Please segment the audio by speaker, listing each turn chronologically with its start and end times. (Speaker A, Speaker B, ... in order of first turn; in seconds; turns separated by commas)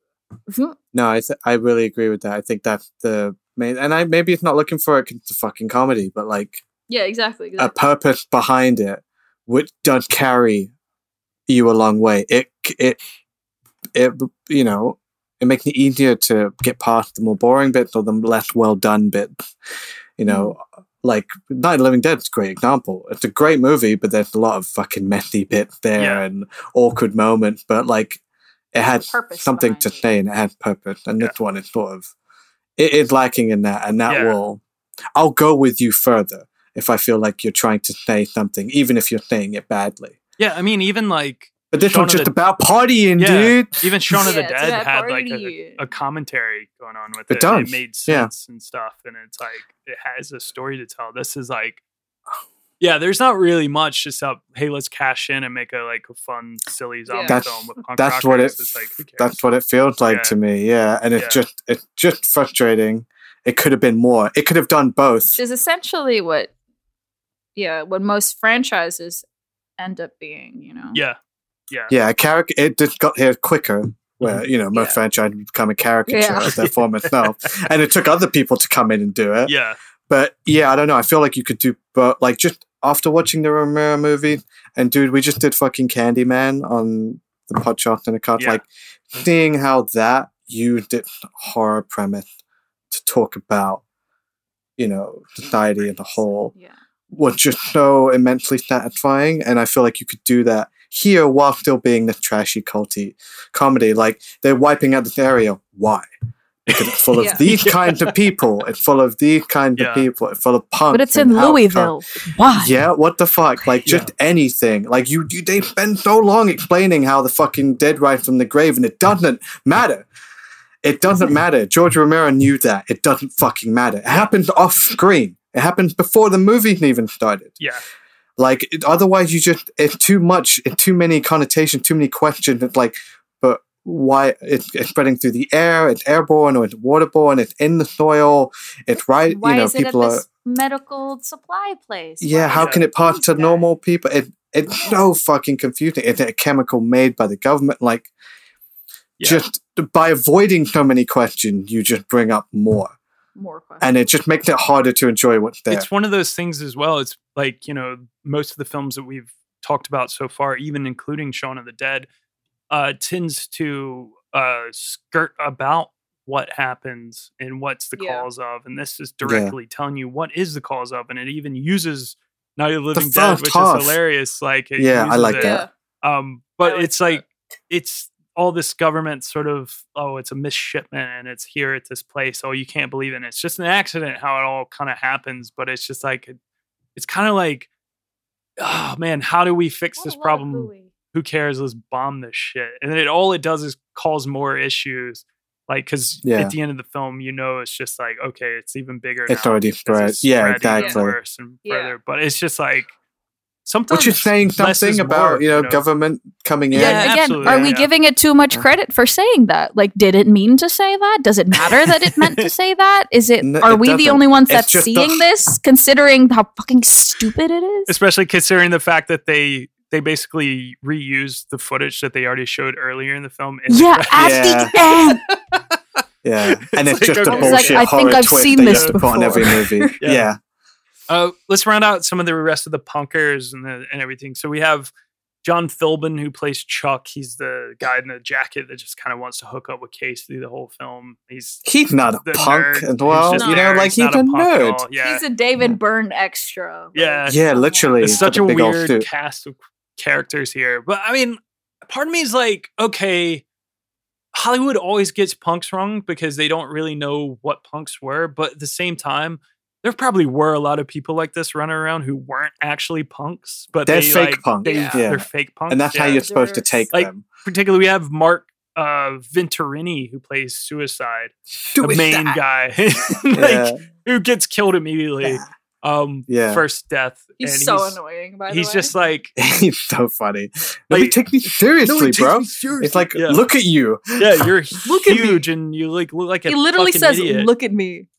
Speaker A: 0.5-0.8, Speaker B: 0.9-6.6, Speaker A: 6.9-7.7, Speaker B: 7.6-10.7, Speaker B: 11.5-13.0, Speaker B: 13.9-19.5, Speaker B: 20.2-28.2, Speaker A: 20.3-20.5, Speaker C: 26.0-26.2, Speaker B: 28.7-32.1, Speaker A: 29.1-30.1, Speaker B: 32.8-34.6, Speaker C: 34.1-34.4, Speaker B: 35.2-40.2, Speaker C: 40.4-42.4, Speaker B: 41.7-44.2, Speaker C: 43.2-51.8, Speaker A: 44.2-45.8, Speaker B: 47.3-48.3, Speaker C: 52.8-59.4, Speaker A: 57.1-57.4, Speaker B: 57.3-65.4, Speaker C: 60.1-60.4, Speaker A: 65.3-66.5, Speaker A: 67.6-69.2, Speaker A: 69.8-71.0, Speaker B: 71.9-79.5, Speaker A: 74.7-75.0, Speaker A: 76.1-76.5, Speaker C: 76.5-77.3, Speaker C: 79.5-79.8, Speaker B: 80.1-92.3, Speaker C: 88.4-88.6, Speaker B: 92.9-93.8, Speaker B: 94.8-96.5, Speaker A: 96.2-96.8, Speaker B: 97.1-106.1, Speaker C: 106.7-108.1, Speaker B: 106.7-111.9, Speaker C: 109.8-110.1, Speaker A: 110.9-112.7, Speaker B: 112.5-120.1, Speaker C: 113.8-114.1, Speaker B: 120.8-127.6, Speaker B: 128.4-140.3, Speaker A: 139.3-143.7, Speaker B: 142.2-148.1, Speaker C: 142.5-142.8, Speaker C: 149.2-149.4, Speaker B: 149.2-153.0, Speaker A: 153.4-153.9, Speaker B: 153.8-155.9, Speaker C: 155.7-162.1, Speaker C: 162.7-186.4, Speaker A: 168.0-168.3, Speaker B: 169.2-169.5, Speaker B: 172.9-174.0, Speaker B: 174.8-175.6, Speaker A: 175.4-175.7, Speaker A: 176.6-177.2, Speaker C: 187.0-187.7, Speaker C: 188.6-202.9, Speaker A: 190.0-190.9, Speaker B: 196.2-196.6, Speaker B: 199.3-201.2, Speaker A: 200.8-201.0, Speaker A: 201.7-201.9, Speaker C: 203.7-205.8, Speaker B: 203.9-207.7, Speaker A: 206.7-217.9, Speaker C: 206.7-207.9, Speaker B: 213.4-215.2, Speaker C: 217.9-224.8, Speaker A: 223.7-225.2, Speaker B: 224.1-224.7, Speaker B: 226.2-230.4, Speaker C: 226.5-230.3, Speaker A: 227.2-229.9, Speaker C: 231.1-234.9, Speaker C: 235.4-241.7, Speaker B: 241.7-244.8, Speaker C: 242.2-245.2, Speaker A: 243.3-243.8, Speaker A: 245.0-248.3, Speaker C: 246.9-247.4, Speaker B: 247.3-249.1, Speaker C: 248.0-253.4, Speaker C: 254.3-266.2, Speaker B: 263.9-267.3, Speaker A: 264.6-265.0, Speaker A: 266.2-266.8, Speaker C: 266.9-279.3, Speaker B: 271.7-272.4, Speaker B: 273.4-273.8, Speaker B: 275.2-275.5, Speaker B: 276.3-276.6, Speaker A: 277.4-279.0, Speaker B: 279.4-284.5, Speaker C: 280.9-283.4, Speaker C: 284.2-287.5, Speaker A: 284.9-285.4, Speaker A: 286.5-288.1